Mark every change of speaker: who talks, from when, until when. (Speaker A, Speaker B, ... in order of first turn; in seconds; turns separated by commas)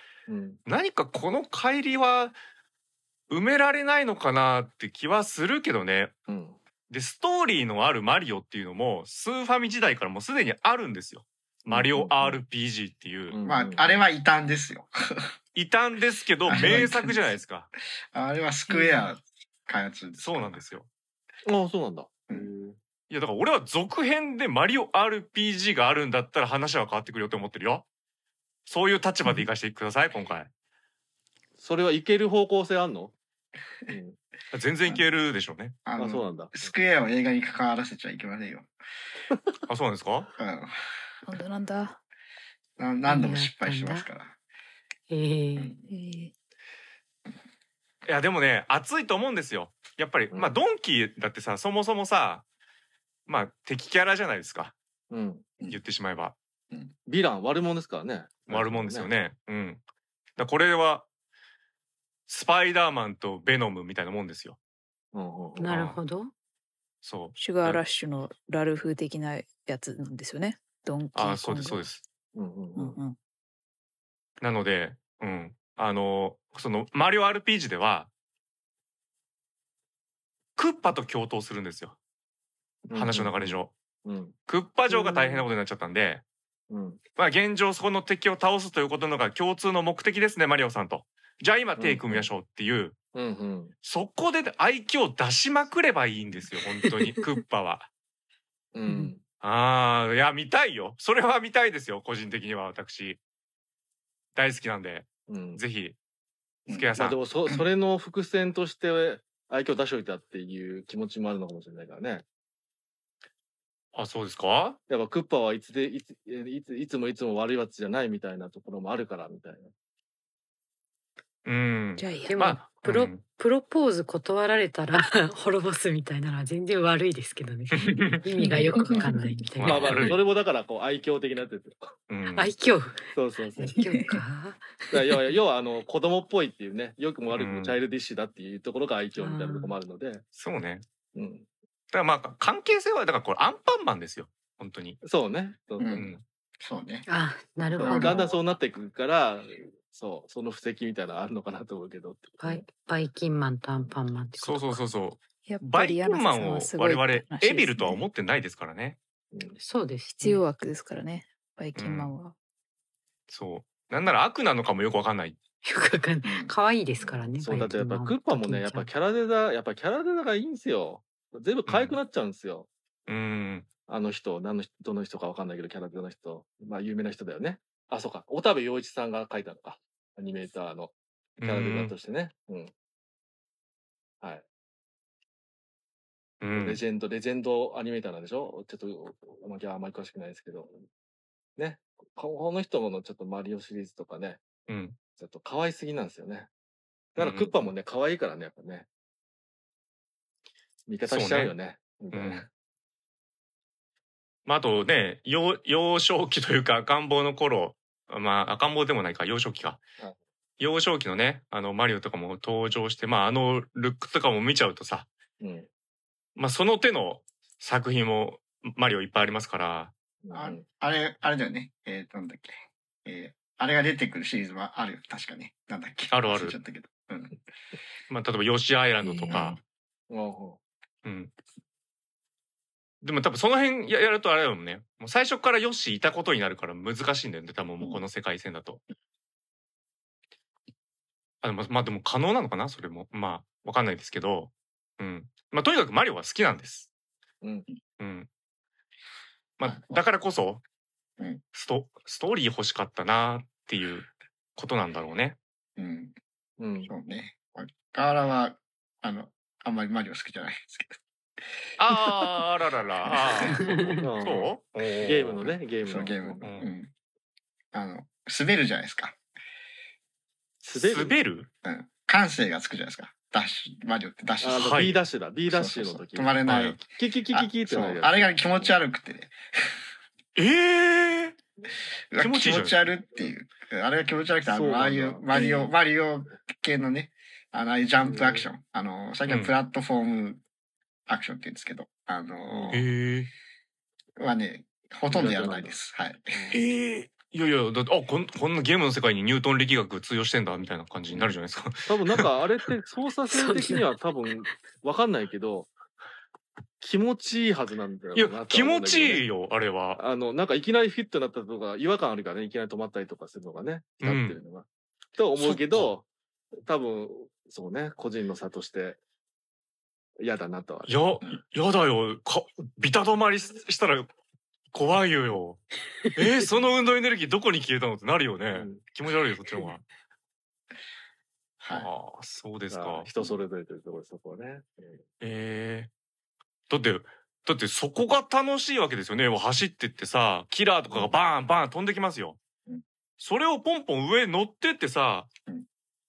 Speaker A: 0.3-0.6, Speaker B: 0.7-2.3, Speaker B: 3.3-6.1, Speaker A: 6.3-6.5, Speaker B: 6.9-13.4, Speaker A: 11.7-12.4, Speaker A: 13.3-14.0, Speaker C: 13.4-15.3, Speaker B: 15.5-17.7, Speaker C: 16.5-17.3, Speaker C: 18.1-20.6, Speaker D: 18.7-19.1, Speaker B: 20.2-20.9, Speaker A: 21.4-22.8, Speaker B: 23.1-27.9, Speaker B: 28.6-30.5, Speaker A: 31.6-33.1, Speaker A: 33.9-34.2, Speaker B: 34.5-35.8, Speaker C: 35.9-38.7, Speaker A: 36.0-36.7, Speaker B: 39.7-40.3, Speaker C: 40.4-40.7, Speaker D: 41.2-42.0, Speaker C: 42.8-44.4, Speaker E: 43.0-44.1, Speaker E: 45.1-45.7, Speaker C: 45.5-45.9, Speaker D: 45.9-46.3, Speaker B: 48.0-52.4, Speaker B: 53.3-54.8, Speaker A: 55.1-55.5, Speaker B: 55.7-56.4, Speaker A: 57.1-59.1, Speaker B: 58.5-59.8, Speaker B: 60.4-61.1, Speaker B: 62.3-64.6, Speaker A: 65.1-65.7, Speaker E: 65.6-66.3, Speaker B: 65.6-66.0, Speaker B: 67.0-67.8, Speaker D: 67.4-71.8, Speaker B: 71.1-72.0, Speaker A: 72.3-73.0, Speaker D: 72.8-73.1, Speaker B: 74.4-78.1, Speaker B: 80.5-82.0, Speaker A: 82.9-84.4, Speaker B: 82.9-83.7, Speaker B: 84.5-86.2, Speaker A: 86.7-87.0, Speaker B: 87.2-93.0, Speaker A: 91.8-92.3, Speaker A: 93.1-93.7, Speaker B: 93.8-97.9, Speaker A: 98.7-99.2, Speaker B: 99.4-103.2, Speaker B: 104.3-106.0, Speaker A: 105.3-105.6, Speaker B: 106.7-107.2, Speaker A: 107.0-112.2, Speaker B: 113.9-114.8, Speaker A: 114.9-119.7, Speaker B: 121.5-123.2, Speaker D: 122.0-122.4, Speaker E: 122.2-130.2, Speaker B: 127.7-128.2, Speaker D: 128.4-129.5, Speaker B: 129.6-130.2, Speaker A: 129.6-131.9, Speaker B: 132.1-132.5, Speaker E: 132.3-133.1, Speaker A: 133.1-133.8, Speaker D: 133.6-134.2, Speaker E: 133.6-135.3, Speaker A: 134.9-140.2, Speaker B: 137.3-137.8, Speaker E: 139.2-139.7, Speaker B: 140.3-140.8, Speaker A: 141.1-141.5, Speaker B: 141.9-145.0, Speaker A: 145.0-146.1, Speaker C: 145.8-147.1, Speaker B: 145.9-146.2, Speaker E: 147.1-148.2, Speaker A: 147.7-152.6, Speaker C: 147.8-148.3, Speaker E: 152.4-154.8, Speaker B: 154.4-159.0, Speaker D: 155.4-158.0, Speaker A: 159.3-159.6, Speaker E: 159.6-160.4, Speaker D: 160.2-162.3, Speaker B: 161.8-162.1, Speaker B: 163.3-165.4, Speaker E: 165.6-168.9, Speaker C: 166.2-166.5, Speaker A: 167.0-172.7, Speaker B: 171.7-172.0, Speaker B: 173.1-173.7, Speaker A: 173.9-182.7, Speaker B: 181.4-181.9, Speaker B: 186.4-186.8, Speaker A: 186.6-190.8, Speaker A: 191.6-194.5, Speaker B: 194.7-195.0, Speaker A: 195.1-196.5, Speaker A: 197.1-198.9, Speaker B: 197.2-197.5, Speaker A: 200.9-202.5, Speaker B: 201.0-201.5, Speaker B: 202.1-202.4, Speaker B: 204.4-209.8, Speaker B: 210.6-215.1, Speaker A: 215.4-215.7, Speaker B: 216.3-219.9, Speaker A: 220.2-220.6, Speaker C: 220.3-227.4, Speaker B: 226.1-226.6, Speaker B: 228.1-229.6, Speaker D: 229.0-229.6, Speaker A: 230.1-230.6, Speaker B: 231.0-231.3, Speaker B: 233.0-238.8, Speaker B: 241.4-246.9, Speaker A: 247.4-247.7, Speaker B: 248.0-248.3, Speaker B: 249.6-250.6, Speaker C: 249.6-250.0, Speaker B: 251.5-255.4, Speaker C: 255.8-256.1, Speaker A: 256.6-256.9, Speaker C: 256.9-261.0, Speaker B: 261.8-265.5, Speaker C: 263.1-263.5, Speaker E: 263.5-264.0, Speaker A: 264.0-266.5, Speaker C: 265.4-266.9, Speaker B: 266.4-266.7, Speaker C: 267.7-269.2, Speaker A: 270.6-271.1, Speaker B: 270.7-271.5, Speaker C: 271.6-279.8, Speaker A: 274.4-278.7, Speaker B: 274.5-275.0, Speaker B: 276.4-276.8, Speaker B: 280.4-281.4, Speaker C: 282.1-290.4, Speaker B: 282.2-282.8, Speaker A: 284.5-285.5, Speaker D: 285.3-285.6, Speaker A: 288.0-288.5, Speaker B: 289.3-289.5, Speaker C: 291.1-292.9, Speaker A: 292.5-292.8, Speaker B: 292.7-293.3, Speaker C: 294.2-296.5, Speaker A: 295.1-295.8, Speaker A: 296.3-296.6, Speaker B: 296.5-302.3, Speaker A: 301.9-305.7, Speaker E: 303.3-303.8, Speaker A: 306.8-309.3, Speaker B: 308.1-310.0, Speaker A: 309.9-314.6, Speaker B: 314.0-314.4, Speaker A: 315.2-316.1, Speaker B: 315.4-315.9, Speaker A: 316.6-319.0, Speaker A: 320.2-320.9, Speaker B: 320.9-324.1, Speaker B: 324.7-325.6, Speaker B: 326.1-329.8, Speaker A: 328.5-328.9, Speaker C: 331.6-331.9, Speaker B: 331.7-333.1, Speaker A: 332.7-335.0, Speaker B: 335.2-335.9, Speaker B: 336.7-342.4, Speaker B: 343.2-345.3